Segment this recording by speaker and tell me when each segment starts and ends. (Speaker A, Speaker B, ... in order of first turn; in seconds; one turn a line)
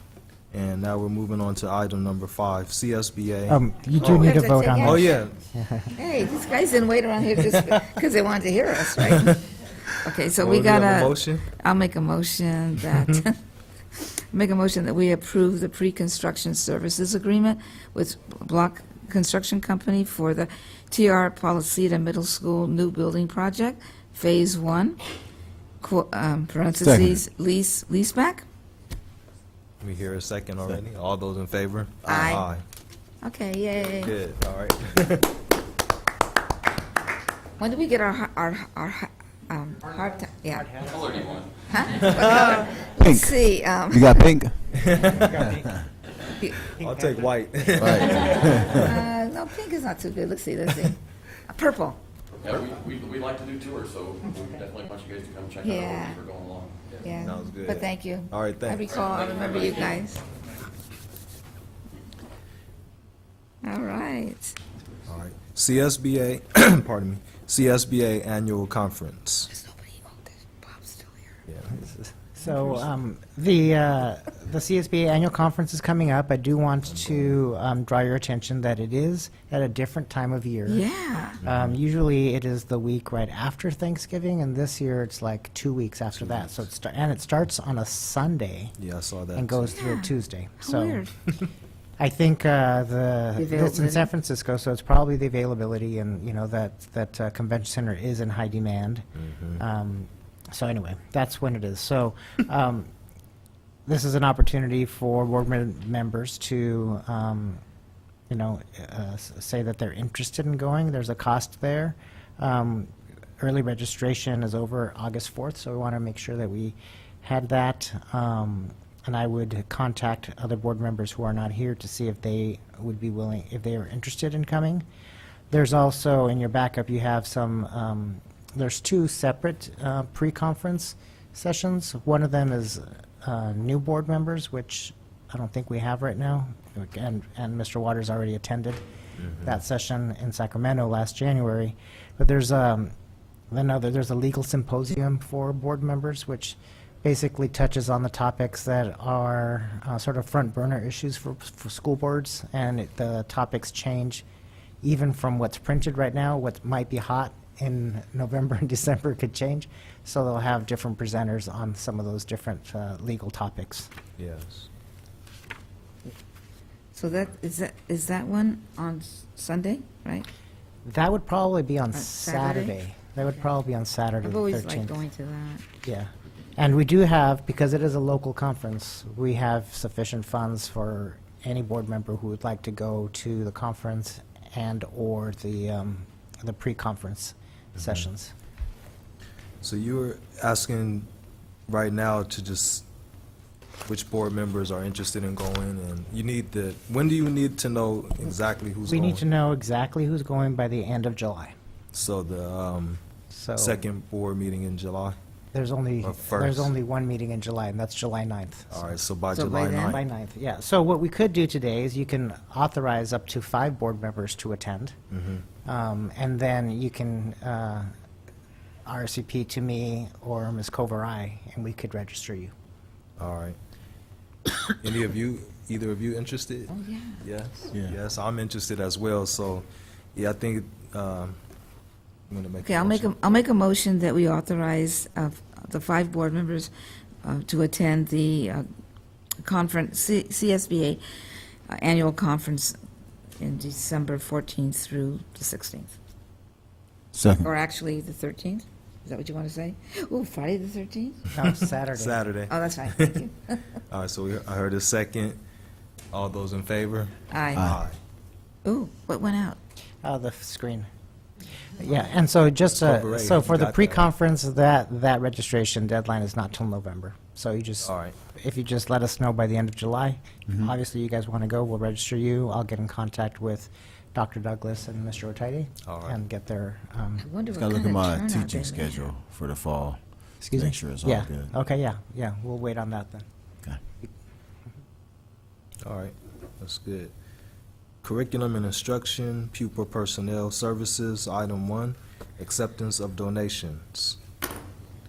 Speaker A: 0.5-5.3
Speaker B: 3.5-5.9
Speaker C: 4.0-5.2
Speaker C: 6.0-13.4
Speaker A: 8.9-9.3
Speaker A: 10.4-11.5
Speaker C: 13.9-25.0
Speaker C: 25.8-28.4
Speaker D: 26.8-27.2
Speaker A: 29.8-32.6
Speaker C: 32.0-32.5
Speaker C: 33.2-34.1
Speaker A: 34.0-35.3
Speaker C: 37.6-40.8
Speaker E: 40.8-42.2
Speaker C: 41.7-44.4
Speaker A: 41.9-42.6
Speaker D: 43.0-43.4
Speaker D: 43.9-44.5
Speaker A: 44.7-45.5
Speaker A: 46.8-48.8
Speaker D: 47.8-48.9
Speaker E: 48.1-48.4
Speaker C: 48.7-52.0
Speaker E: 52.4-56.9
Speaker C: 55.6-56.2
Speaker C: 56.9-60.2
Speaker A: 57.2-58.8
Speaker E: 59.0-59.8
Speaker C: 63.6-64.5
Speaker A: 65.1-69.5
Speaker C: 69.5-71.4
Speaker A: 71.5-71.7
Speaker B: 71.7-80.8
Speaker C: 72.5-72.8
Speaker A: 76.8-77.3
Speaker C: 80.7-81.4
Speaker B: 81.4-88.7
Speaker A: 81.4-81.7
Speaker A: 86.1-86.6
Speaker A: 88.8-89.8
Speaker B: 89.3-91.0
Speaker C: 89.7-91.2
Speaker B: 92.0-99.0
Speaker C: 93.4-94.1
Speaker A: 99.2-99.6
Speaker B: 99.6-102.9
Speaker B: 103.9-107.6
Speaker B: 108.3-124.8
Speaker B: 125.5-138.8
Speaker A: 139.2-139.5
Speaker B: 139.4-142.9
Speaker B: 143.5-154.2
Speaker B: 154.8-163.9
Speaker A: 164.2-164.7
Speaker C: 166.9-170.3
Speaker B: 170.8-175.0
Speaker C: 171.9-173.4
Speaker C: 174.2-175.6
Speaker B: 175.8-188.3
Speaker A: 189.6-191.1
Speaker A: 191.7-192.8
Speaker A: 193.8-199.2
Speaker B: 198.9-201.5
Speaker A: 201.9-203.0
Speaker B: 203.3-203.8
Speaker A: 203.6-205.2
Speaker B: 205.5-209.0
Speaker A: 206.0-206.7
Speaker A: 208.7-210.0
Speaker C: 209.3-210.0
Speaker B: 209.9-214.9
Speaker A: 215.1-215.4
Speaker B: 215.6-217.9
Speaker B: 218.8-222.5
Speaker A: 223.2-223.6
Speaker A: 224.8-231.4
Speaker C: 226.7-227.2
Speaker A: 232.3-233.1
Speaker C: 232.6-236.7
Speaker C: 237.2-238.6
Speaker C: 239.4-241.0
Speaker C: 241.7-242.8
Speaker C: 243.4-245.9
Speaker D: 247.1-247.5
Speaker C: 247.3-251.2
Speaker B: 251.3-252.2
Speaker A: 251.3-253.2
Speaker C: 252.5-253.6
Speaker A: 253.9-255.4
Speaker A: 256.1-258.0
Speaker C: 257.3-257.8
Speaker C: 258.6-259.6
Speaker B: 260.0-260.9
Speaker B: 261.8-277.3
Speaker A: 262.7-264.1
Speaker A: 267.8-268.2
Speaker A: 275.8-276.2
Speaker C: 277.2-279.1
Speaker D: 277.5-281.5
Speaker B: 280.5-283.2
Speaker A: 285.8-287.1
Speaker A: 288.0-294.2